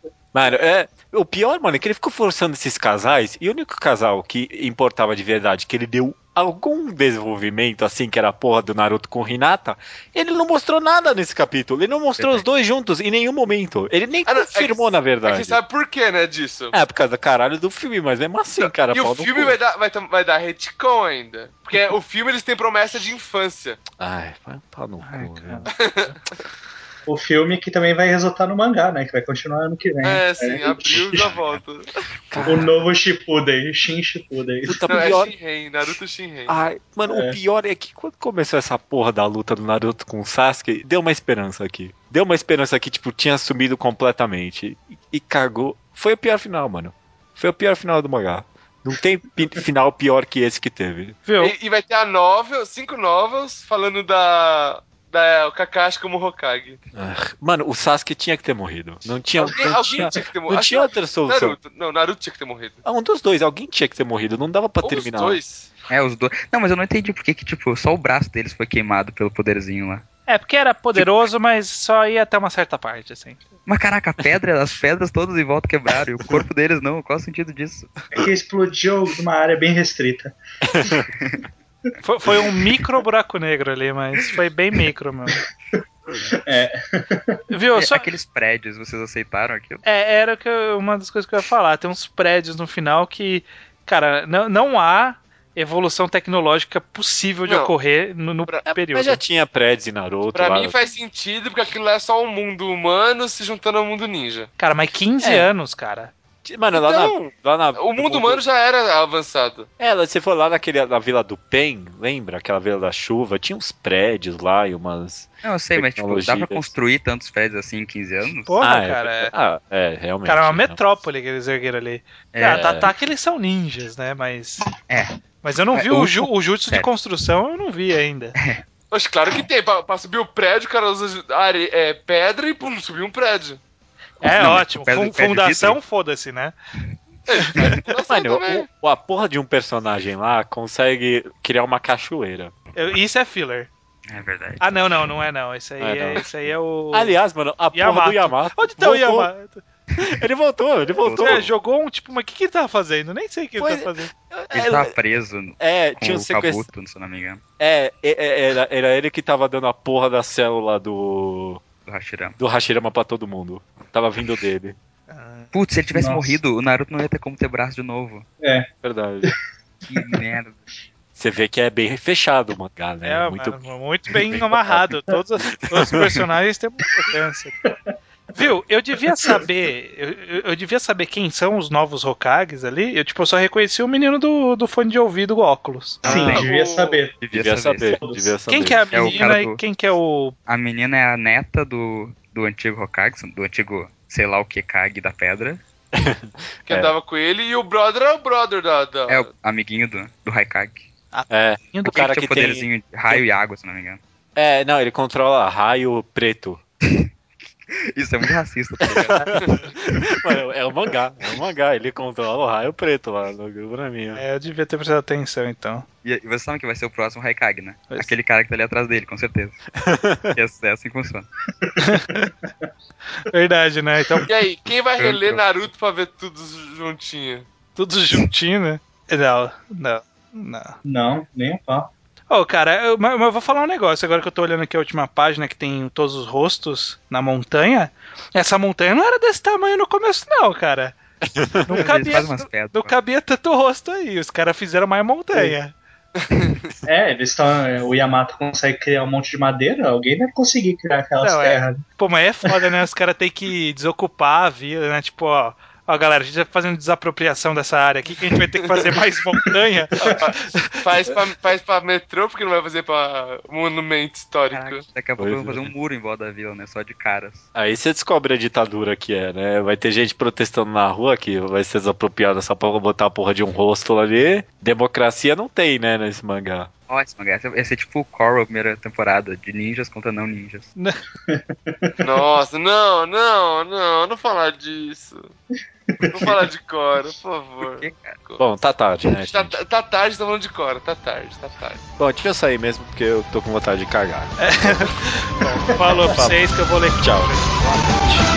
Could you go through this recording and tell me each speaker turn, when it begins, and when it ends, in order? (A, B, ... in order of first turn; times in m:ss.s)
0:00.3-0:15.6 A
0:12.2-0:12.4 B
0:14.2-0:16.7 C
0:16.7-0:19.6 A
0:18.6-0:23.8 C
0:24.0-0:25.9 A
0:25.0-0:26.1 D
0:25.7-0:26.1 C
0:27.0-0:31.4 E
0:30.0-0:31.8 C
0:30.9-0:31.4 A
0:32.3-0:32.7 A
0:32.4-0:35.3 E
0:34.6-0:35.3 A
0:34.9-0:36.6 C
0:36.5-0:51.2 A
0:37.0-0:37.4 E
0:51.3-0:51.5 D
0:51.4-0:56.8 C
0:56.9-1:01.6 A
0:59.4-1:02.8 C
1:02.8-1:05.4 A
1:04.8-1:05.7 C
1:05.9-1:10.0 B
1:10.3-1:13.4 D
1:13.6-1:18.0 B
1:18.1-1:20.3 E
1:20.7-1:21.0 A
1:22.0-1:25.4 D
1:25.8-1:27.4 E
1:27.5-1:28.1 D
1:27.8-1:29.8 B
1:29.8-1:39.2 D
1:37.4-1:37.7 C
1:38.7-1:40.7 A
1:40.3-1:44.5 C
1:44.6-1:46.1 D
1:45.2-1:45.5 A
1:46.4-1:48.4 A
1:46.7-1:47.1 C
1:47.7-1:49.7 C
1:49.8-1:56.7 A
1:55.4-1:58.6 B
1:58.4-1:59.3 D
1:58.6-2:01.0 A
2:00.2-2:04.7 D
2:02.3-2:02.9 B
2:02.5-2:02.9 A
2:05.4-2:08.4 D
2:05.7-2:06.9 B
2:08.4-2:08.6 B
2:08.9-2:13.6 C
2:14.2-2:16.5 D
2:14.2-2:15.8 B
2:17.3-2:18.7 C
2:18.1-2:22.5 A
2:22.8-2:23.7 D
2:24.1-2:24.6 B
2:24.6-2:27.2 D
2:25.8-2:29.3 A
2:27.7-2:29.6 D
2:30.0-2:31.5 A
2:31.0-2:31.4 B
2:31.2-2:34.1 D
2:33.6-2:35.0 A
2:34.5-2:37.4 B
2:35.6-2:36.7 A
2:37.6-2:41.6 A
2:41.8-2:42.4 B
2:42.4-2:44.7 A
2:45.1-2:45.5 D
2:45.5-2:48.3 B
2:45.9-2:46.4 E
2:48.4-2:48.7 E
2:48.8-2:49.3 A
2:49.9-2:50.2 E
2:49.9-2:50.6 B
2:51.2-2:54.9 A
2:53.0-2:57.5 D
2:55.8-2:56.1 A
2:58.4-3:06.0 D
3:06.0-3:06.5 A
3:06.0-3:07.2 E
3:06.2-3:07.0 C
3:07.2-3:08.0 B
3:07.3-3:08.9 A
3:07.9-3:08.3 E
3:08.5-3:10.3 D
3:08.9-3:09.6 B
3:10.5-3:15.6 B
3:15.9-3:16.9 A
3:16.6-3:19.3 C
3:19.1-3:20.9 B
3:21.1-3:22.0 D
3:21.3-3:23.2 A
3:21.8-3:24.0 B
3:24.4-3:26.6 A
3:27.9-3:29.8 B
3:29.5-3:34.2 A
3:34.2-3:35.8 D
3:36.0-3:39.6 B
3:39.8-3:40.3 A
3:40.3-3:41.3 B
3:41.6-3:41.9 E
3:41.9-3:42.3 D
3:43.3-3:44.2 D
3:44.2-3:47.5 C
3:45.0-3:45.4 A
3:47.8-3:50.8 D
3:50.8-3:51.9 E
3:52.3-4:01.0 D
4:01.4-4:01.7 A
4:01.6-4:05.7 D
4:01.7-4:02.9 B
4:06.2-4:06.7 C
4:06.8-4:11.8 E
4:11.2-4:20.6 D
4:20.0-4:24.8 C
4:24.5-4:27.4 B
4:25.2-4:25.7 A
4:27.5-4:36.7 A
4:36.9-4:40.7 B
4:41.3-4:42.4 E
4:42.0-4:45.3 C
4:45.9-4:46.4 E
4:46.0-4:46.3 B
4:46.1-4:48.4 C
4:47.6-4:48.1 B
4:48.4-4:49.6 A
4:49.1-4:51.8 C
4:52.0-4:54.9 A
4:54.4-4:58.2 D
4:55.7-4:56.1 E
4:56.0-4:57.4 A